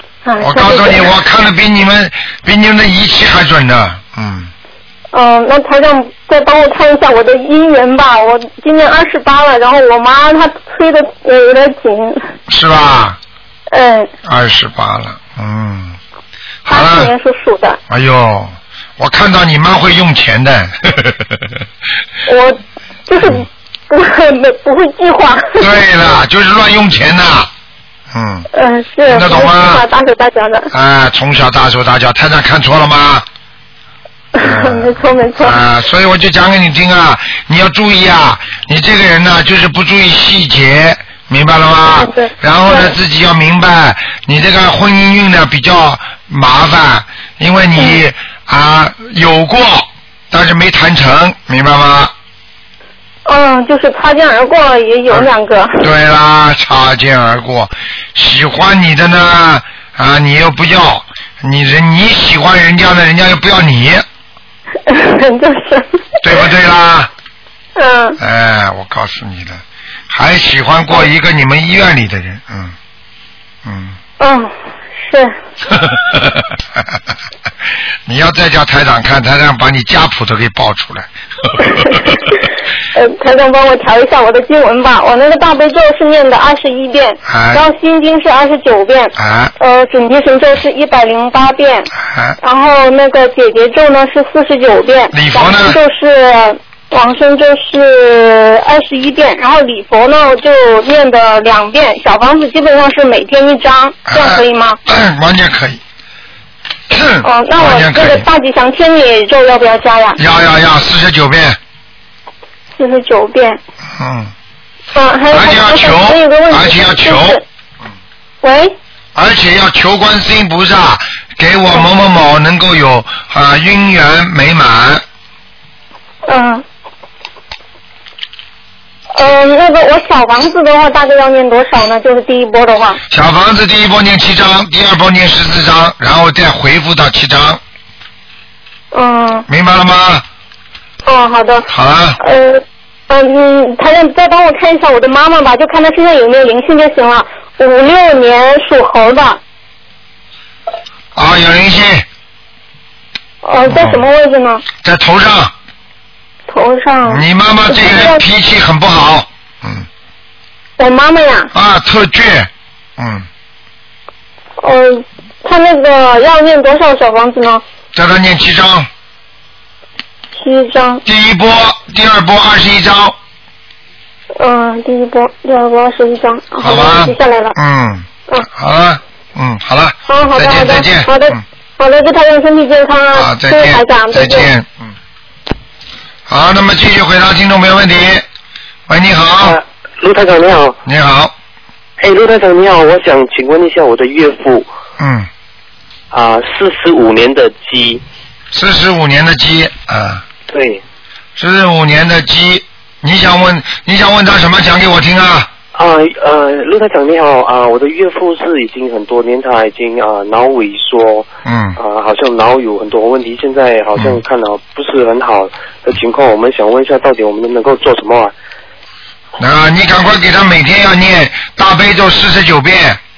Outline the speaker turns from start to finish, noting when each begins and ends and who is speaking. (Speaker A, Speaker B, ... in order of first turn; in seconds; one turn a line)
Speaker A: 0.2-1.1
Speaker B: 0.4-4.5
Speaker A: 5.1-12.3
Speaker B: 12.5-13.2
Speaker A: 13.7-14.1
Speaker B: 14.2-16.0
Speaker B: 16.6-17.1
Speaker A: 16.6-17.8
Speaker B: 17.9-21.4
Speaker A: 22.2-25.7
Speaker B: 25.6-27.5
Speaker B: 28.1-28.5
Speaker A: 28.5-30.7
Speaker B: 29.1-29.8
Speaker B: 30.7-33.2
Speaker A: 34.3-35.6
Speaker B: 34.4-52.1
Speaker A: 42.0-43.0
Speaker A: 53.2-55.9
Speaker B: 55.8-64.0
Speaker A: 64.9-66.4
Speaker B: 66.2-67.1
Speaker A: 67.8-68.2
Speaker B: 68.2-72.7
Speaker B: 73.6-74.0
Speaker A: 74.2-75.3
Speaker B: 75.8-76.9
Speaker B: 78.1-81.7
Speaker A: 81.8-82.4
Speaker A: 82.9-91.9
Speaker B: 87.2-87.6
Speaker B: 89.2-89.5
Speaker B: 92.0-92.4
Speaker A: 92.4-104.8
Speaker B: 95.1-95.8
Speaker B: 104.1-105.8
Speaker B: 106.9-108.2
Speaker A: 107.2-110.2
Speaker B: 110.2-111.6
Speaker A: 112.7-113.6
Speaker B: 114.0-114.3
Speaker A: 114.9-117.4
Speaker B: 115.3-117.4
Speaker A: 118.4-118.8
Speaker B: 119.1-125.0
Speaker A: 126.2-126.6
Speaker A: 129.1-133.0
Speaker B: 133.1-137.6
Speaker A: 138.9-139.4
Speaker B: 139.5-140.2
Speaker A: 141.1-141.7
Speaker B: 141.7-142.2
Speaker A: 142.2-149.4
Speaker B: 151.2-152.1
Speaker A: 153.4-154.6
Speaker B: 153.7-154.1
Speaker B: 154.8-155.5
Speaker A: 156.5-158.2
Speaker B: 157.1-159.9
Speaker A: 160.8-161.5
Speaker B: 161.5-163.3
Speaker A: 164.6-167.6
Speaker B: 167.9-168.9
Speaker A: 170.3-171.0
Speaker B: 171.1-173.2
Speaker A: 174.4-177.5
Speaker B: 176.6-181.4
Speaker A: 180.1-184.5
Speaker B: 183.1-184.9
Speaker B: 186.3-188.2
Speaker B: 188.9-189.6
Speaker C: 189.4-190.8
Speaker B: 190.8-191.3
Speaker C: 192.0-194.7
Speaker B: 195.0-195.3
Speaker C: 196.1-198.0
Speaker B: 198.5-200.2
Speaker C: 200.5-200.8
Speaker B: 201.3-205.5
Speaker C: 205.7-218.3
Speaker B: 211.4-211.8
Speaker B: 219.4-223.0